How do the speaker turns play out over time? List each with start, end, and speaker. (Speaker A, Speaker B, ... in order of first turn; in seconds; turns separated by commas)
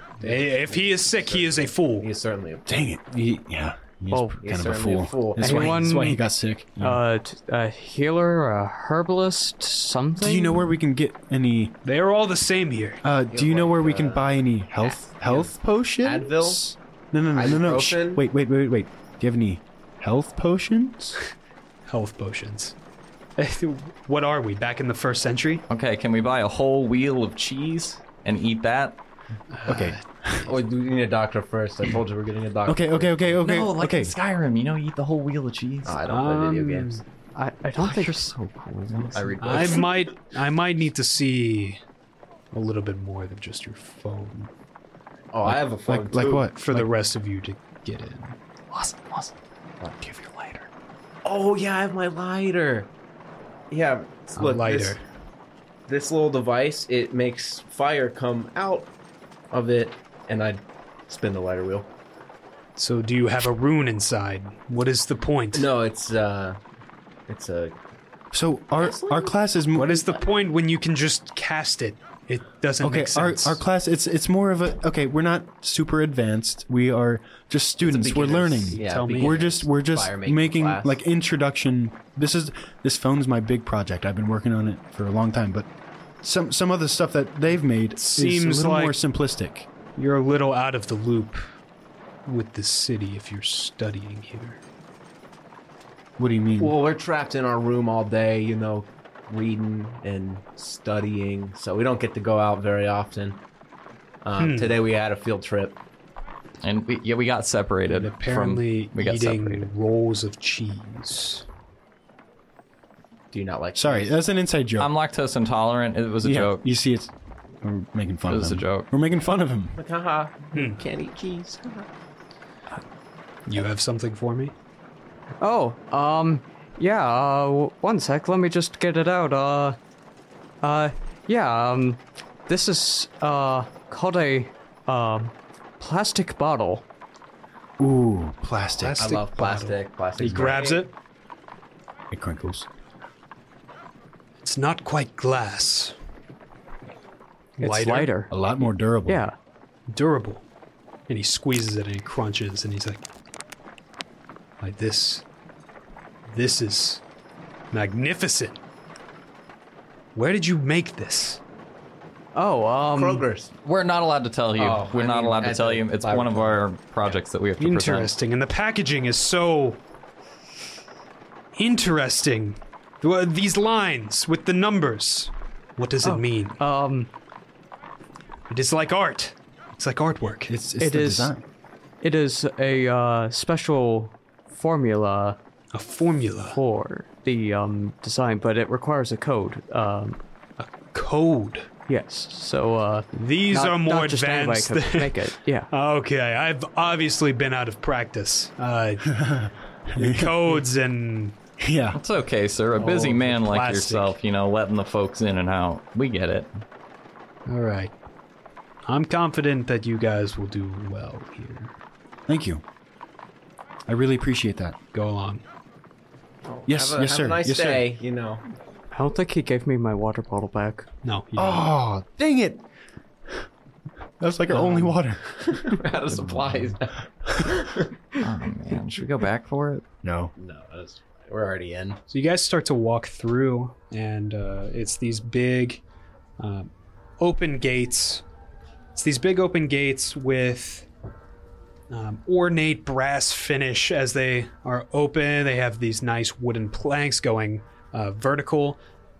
Speaker A: 0.2-2.1, Speaker B: 0.2-2.7, Speaker C: 2.7-7.0, Speaker D: 4.1-4.4, Speaker B: 4.4-5.8, Speaker D: 5.4-6.2, Speaker D: 6.8-10.6, Speaker C: 10.2-11.8, Speaker A: 11.8-13.0, Speaker C: 13.0-21.2, Speaker B: 13.3-16.6, Speaker B: 17.3-18.2, Speaker A: 21.9-22.8, Speaker A: 23.4-25.6, Speaker E: 25.7-29.0, Speaker A: 29.5-30.4, Speaker C: 29.7-30.5, Speaker B: 30.4-33.3, Speaker C: 32.7-34.1, Speaker E: 33.4-36.0, Speaker B: 35.9-37.0, Speaker A: 36.0-37.0, Speaker D: 37.3-38.3, Speaker E: 37.8-39.9, Speaker B: 39.1-39.9, Speaker A: 39.4-41.8, Speaker A: 42.5-44.5, Speaker B: 45.3-46.5, Speaker C: 45.5-46.9, Speaker A: 46.5-48.4, Speaker E: 48.7-49.3, Speaker E: 50.0-50.7, Speaker B: 51.2-52.9, Speaker B: 53.7-55.0, Speaker A: 54.4-55.0, Speaker B: 55.9-58.9, Speaker B: 59.5-61.9, Speaker A: 62.8-65.7, Speaker B: 65.5-66.6, Speaker B: 67.3-67.8, Speaker C: 68.3-70.0, Speaker B: 68.8-70.2, Speaker A: 69.7-73.6, Speaker C: 72.8-85.7, Speaker B: 77.8-81.0, Speaker A: 78.7-79.5, Speaker C: 86.2-89.7, Speaker A: 87.9-89.0, Speaker A: 90.0-91.4, Speaker A: 92.2-94.6, Speaker C: 96.2-96.8, Speaker B: 96.6-103.4, Speaker B: 104.2-105.8, Speaker A: 104.4-104.8, Speaker E: 106.6-109.7, Speaker A: 107.9-111.5, Speaker B: 113.3-114.1, Speaker C: 113.7-114.9, Speaker E: 114.8-116.6, Speaker C: 116.2-119.8, Speaker E: 118.3-118.9, Speaker B: 119.8-121.9, Speaker A: 120.5-120.8, Speaker A: 123.5-124.5, Speaker D: 125.4-129.8, Speaker D: 130.6-136.8, Speaker C: 137.8-139.2, Speaker A: 138.8-140.9, Speaker B: 139.0-140.8, Speaker C: 140.2-140.6, Speaker C: 142.1-142.7, Speaker A: 144.4-145.9, Speaker A: 147.6-148.1, Speaker D: 147.6-148.3, Speaker C: 148.3-149.2, Speaker D: 149.1-149.3, Speaker A: 149.9-150.4, Speaker A: 151.1-153.0, Speaker A: 154.6-155.2, Speaker A: 156.3-157.0, Speaker A: 157.7-158.6, Speaker A: 160.1-161.4, Speaker D: 162.3-163.2, Speaker B: 162.9-163.5, Speaker E: 163.6-168.1, Speaker B: 164.6-167.2, Speaker A: 167.6-169.8, Speaker A: 171.6-176.6, Speaker D: 176.0-177.1, Speaker A: 178.5-180.5, Speaker C: 180.5-181.4, Speaker D: 180.8-181.3, Speaker D: 182.0-185.4, Speaker A: 185.7-186.6, Speaker D: 186.5-190.2, Speaker A: 190.6-191.7, Speaker D: 191.9-195.7, Speaker A: 193.2-199.2, Speaker C: 199.1-200.6, Speaker A: 199.9-201.4, Speaker C: 201.6-202.0, Speaker E: 201.9-206.5, Speaker A: 202.8-204.1, Speaker A: 207.5-207.9, Speaker A: 208.9-211.7, Speaker C: 212.3-212.6, Speaker C: 213.9-214.8, Speaker A: 214.9-215.4, Speaker B: 216.4-218.4, Speaker C: 216.7-217.9, Speaker D: 218.9-220.9, Speaker A: 221.0-221.7, Speaker C: 221.3-222.6, Speaker C: 224.2-225.5, Speaker B: 224.5-227.9, Speaker E: 228.2-229.8, Speaker C: 230.0-230.3, Speaker B: 230.3-232.0, Speaker A: 232.1-235.8, Speaker A: 236.4-238.2, Speaker A: 238.9-240.9, Speaker A: 241.9-248.8